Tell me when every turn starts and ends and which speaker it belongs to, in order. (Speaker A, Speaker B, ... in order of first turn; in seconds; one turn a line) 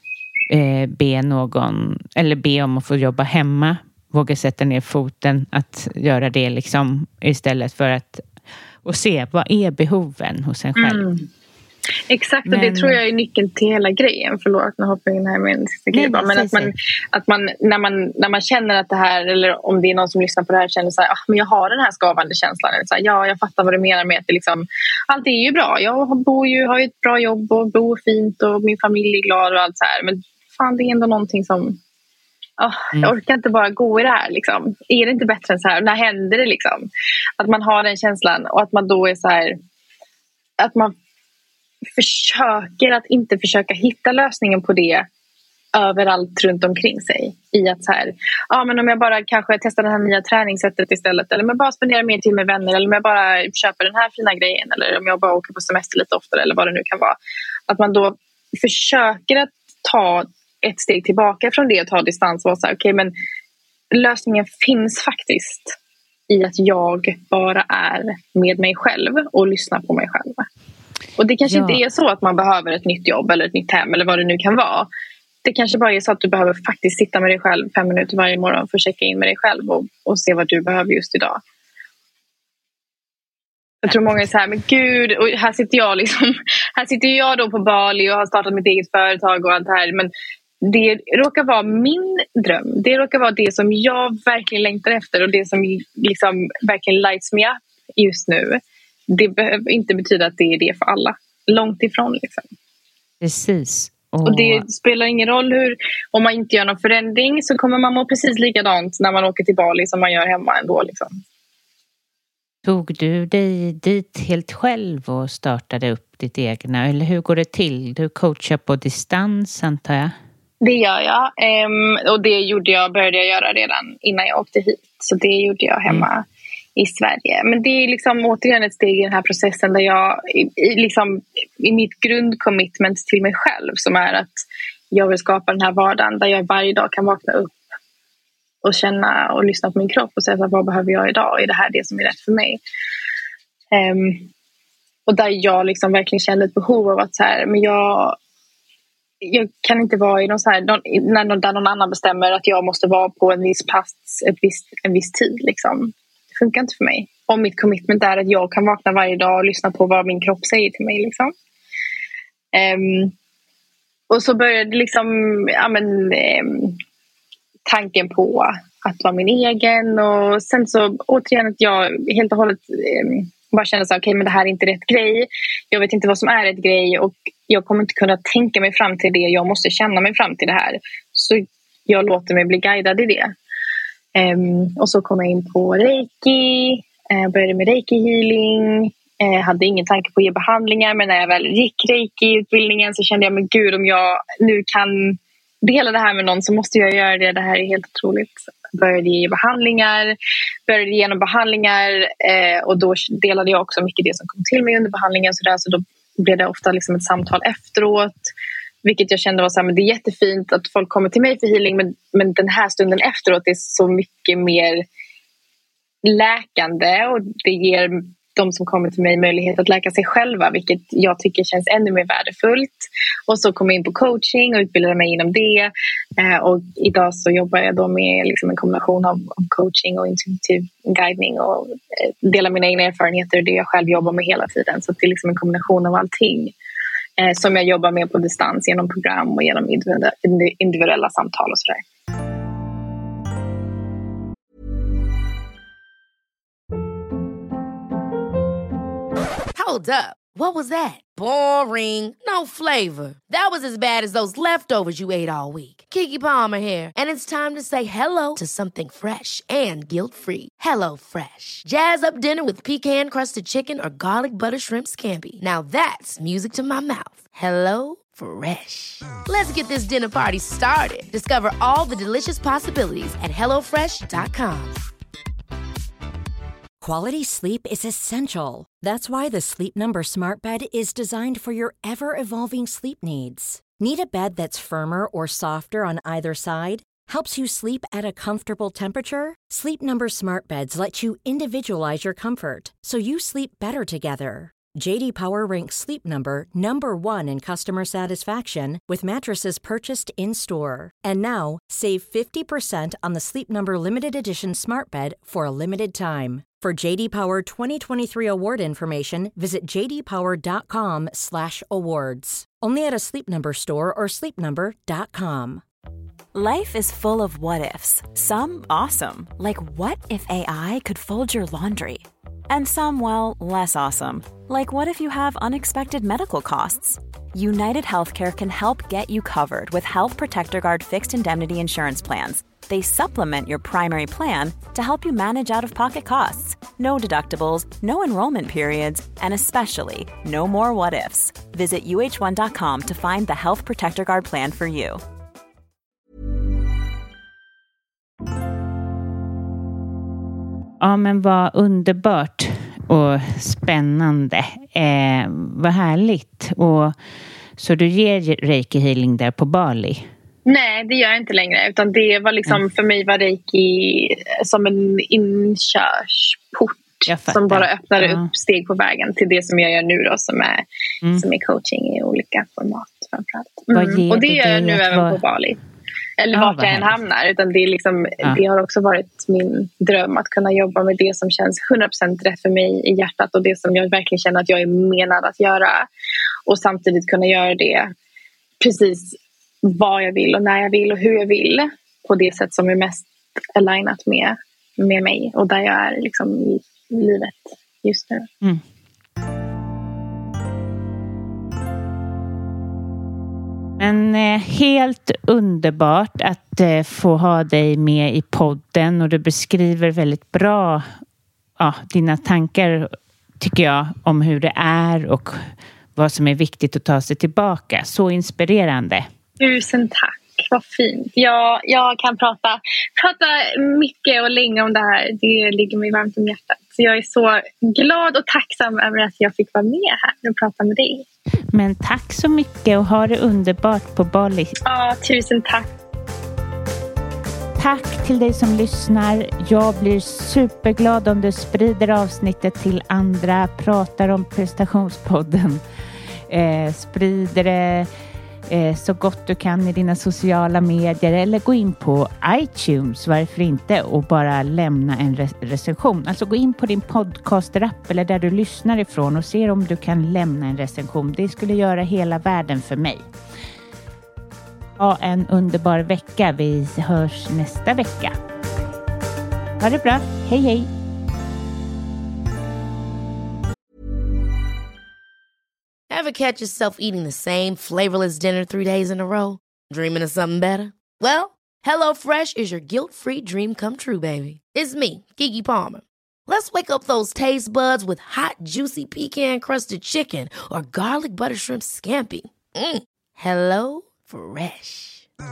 Speaker A: 0.5-8.2
Speaker A: 8.8-11.1
Speaker B: 10.8-11.3
Speaker B: 12.1-31.8
Speaker A: 12.4-13.0
Speaker A: 15.9-16.7
Speaker B: 32.6-36.9
Speaker B: 37.4-39.6
Speaker B: 40.6-40.9
Speaker B: 42.0-45.1
Speaker B: 45.7-57.2
Speaker B: 57.7-63.1
Speaker B: 63.9-65.7
Speaker B: 66.3-70.5
Speaker B: 71.2-74.9
Speaker A: 71.4-71.8
Speaker B: 75.4-81.4
Speaker B: 83.8-90.1
Speaker B: 90.6-102.5
Speaker A: 103.2-104.6
Speaker B: 104.2-111.2
Speaker A: 112.6-120.1
Speaker B: 120.6-126.2
Speaker B: 126.8-134.3
Speaker B: 134.9-137.6
Speaker B: 138.6-142.6
Speaker B: 143.7-144.3
Speaker B: 145.1-148.2
Speaker B: 149.2-161.3
Speaker B: 162.5-163.1
Speaker B: 164.1-166.8
Speaker B: 167.7-183.3
Speaker B: 184.1-200.2
Speaker B: 200.7-208.3
Speaker B: 208.8-214.8
Speaker B: 216.0-236.5
Speaker B: 237.2-241.8
Speaker C: 249.5-274.8
Speaker D: 276.8-315.6
Speaker E: 316.3-345.0
Speaker A: 350.8-356.9
Speaker A: 357.6-360.1
Speaker B: 360.4-370.6
Speaker A: 367.1-368.3
Speaker B: 371.1-375.6
Speaker A: 373.7-375.2
Speaker B: 376.2-385.9
Speaker A: 376.3-377.0
Speaker B: 386.5-387.9
Speaker B: 388.6-398.3
Speaker A: 403.8-410.8
Speaker A: 411.6-415.4
Speaker A: 415.9-419.1
Speaker B: 419.4-431.0
Speaker A: 431.5-434.5
Speaker B: 434.6-435.7
Speaker A: 437.6-445.6
Speaker A: 446.3-447.9
Speaker A: 448.5-463.0
Speaker A: 464.8-468.1
Speaker A: 469.6-470.7
Speaker C: 475.9-495.1